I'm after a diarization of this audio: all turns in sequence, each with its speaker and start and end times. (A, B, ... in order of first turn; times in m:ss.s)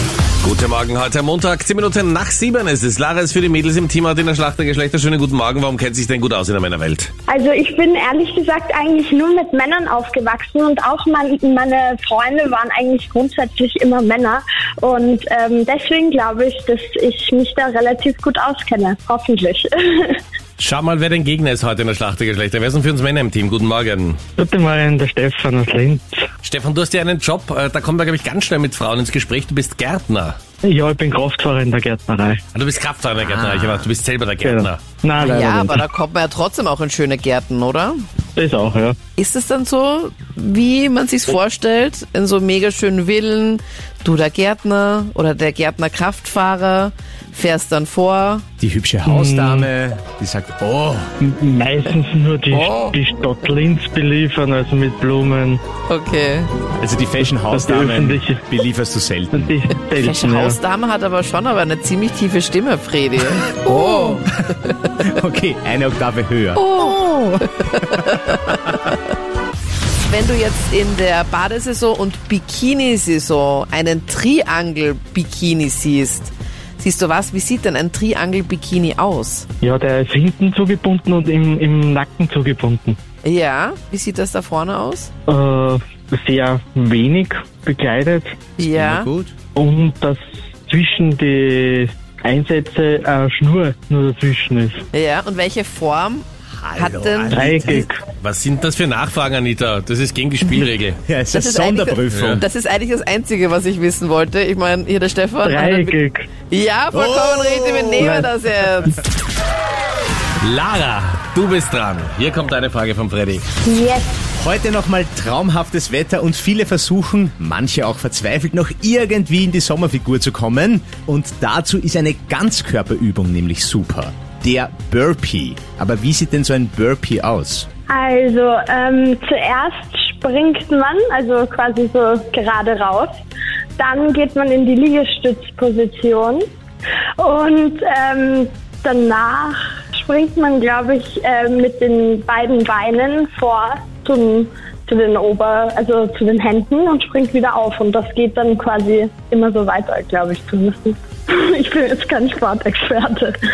0:00.4-0:07.1 A
0:07.3-0:20.2 B
0:20.6-0:24.2 A
0:24.4-0:26.2 C
0:26.4-0:30.4 A
0:30.6-0:32.4 C
0:32.5-0:34.8 A
0:33.2-0:33.9 D
0:34.4-0:35.8 C
0:35.2-0:38.0 E
0:38.4-0:39.0 C
0:39.2-0:48.4 E
0:48.6-0:51.1 D
0:49.0-0:49.7 C
0:51.2-0:55.6 C
0:52.5-0:53.0 E
0:55.9-0:56.5 E
0:56.8-0:59.5 D
0:57.5-0:58.4 C
0:59.3-1:00.6 C
0:59.9-1:04.3 E
1:03.6-1:06.8 D
1:06.5-1:08.7 E
1:07.8-1:08.6 D
1:10.0-1:19.4 E
1:19.6-1:23.0 C
1:23.2-1:25.1 E
1:25.3-1:28.4 C
1:28.6-1:29.1 E
1:28.7-1:29.3 D
1:29.5-1:34.8 C
1:34.9-1:37.9 E
1:36.6-1:37.8 D
1:37.3-1:38.0 C
1:38.2-1:41.0 A
1:41.0-1:42.4 D
1:41.3-1:46.0 E
1:42.1-1:42.4 A
1:45.4-1:46.3 C
1:46.5-1:49.0 E
1:46.9-1:48.2 D
1:48.0-1:48.3 C
1:50.4-1:53.4 A
1:53.6-1:54.2 B
1:54.4-2:07.7 D
2:07.9-2:13.1 B
2:13.8-2:16.4 B
2:17.2-2:33.3 B